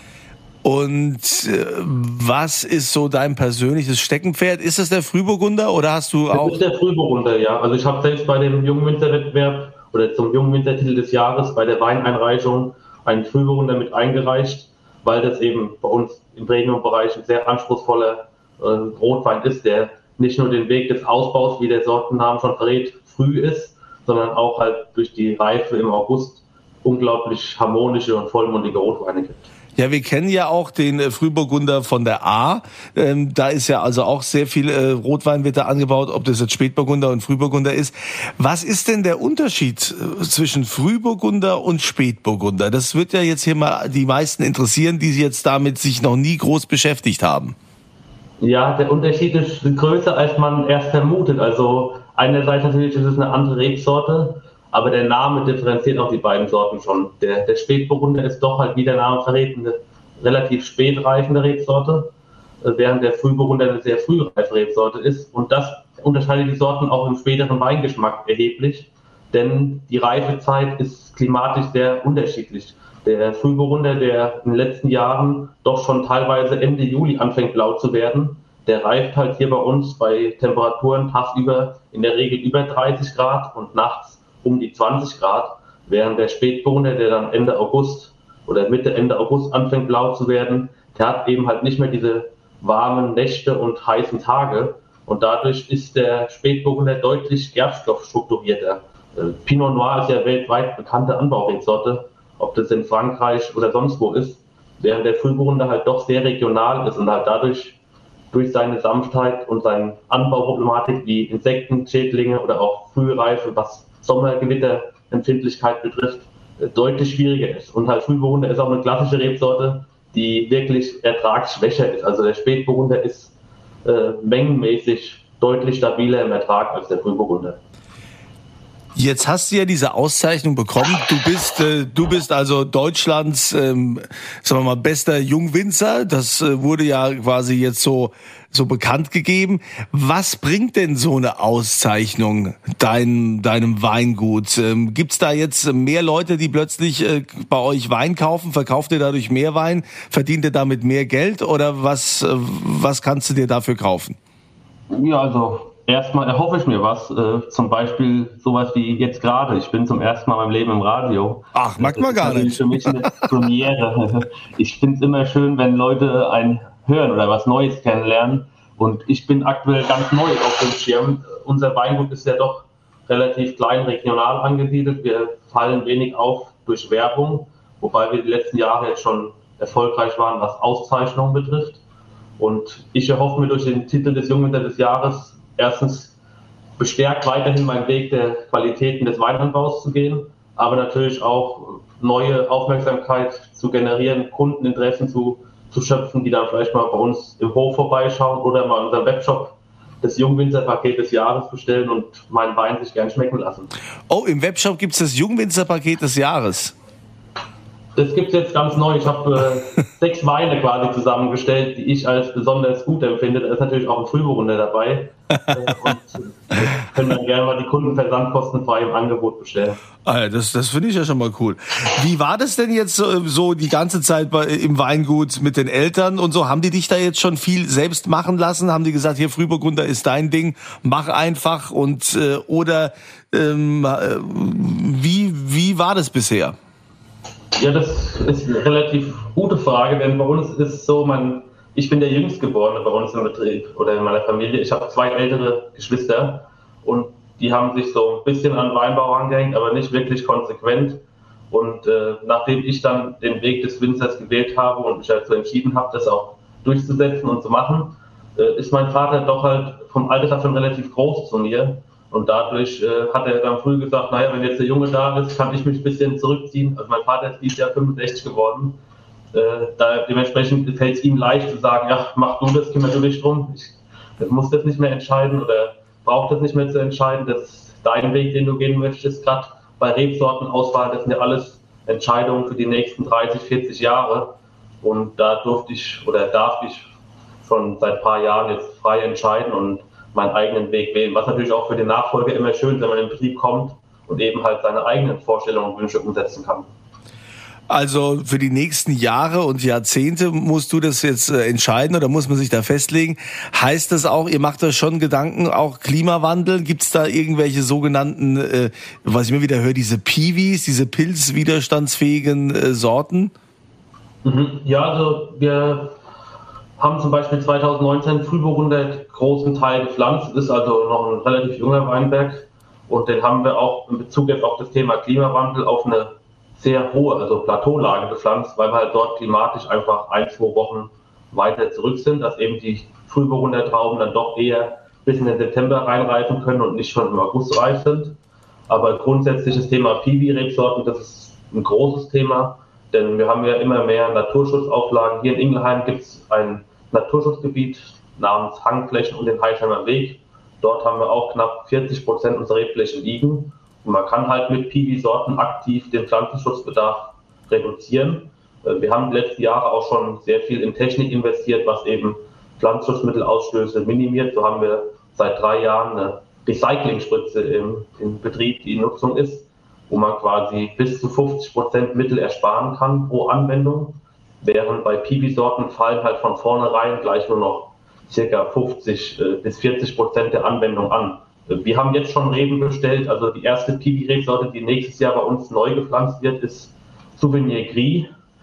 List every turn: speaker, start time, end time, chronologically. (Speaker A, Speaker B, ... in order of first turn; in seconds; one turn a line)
Speaker A: 0.6-6.6
Speaker B: 6.3-29.4
Speaker A: 29.8-47.5
Speaker B: 48.4-62.1
Speaker B: 62.6-107.8
Speaker B: 108.3-127.6
Speaker A: 128.9-154.2
Speaker B: 154.9-181.8
Speaker A: 161.5-163.0
Speaker B: 182.4-186.1
Speaker B: 186.8-203.7
Speaker A: 204.1-206.7
Speaker B: 207.9-219.8
Speaker A: 220.0-236.5
Speaker B: 237.5-268.8
Speaker B: 269.3-286.9
Speaker B: 287.4-296.7
Speaker A: 297.7-313.3
Speaker B: 314.2-316.0
Speaker B: 316.8-388.1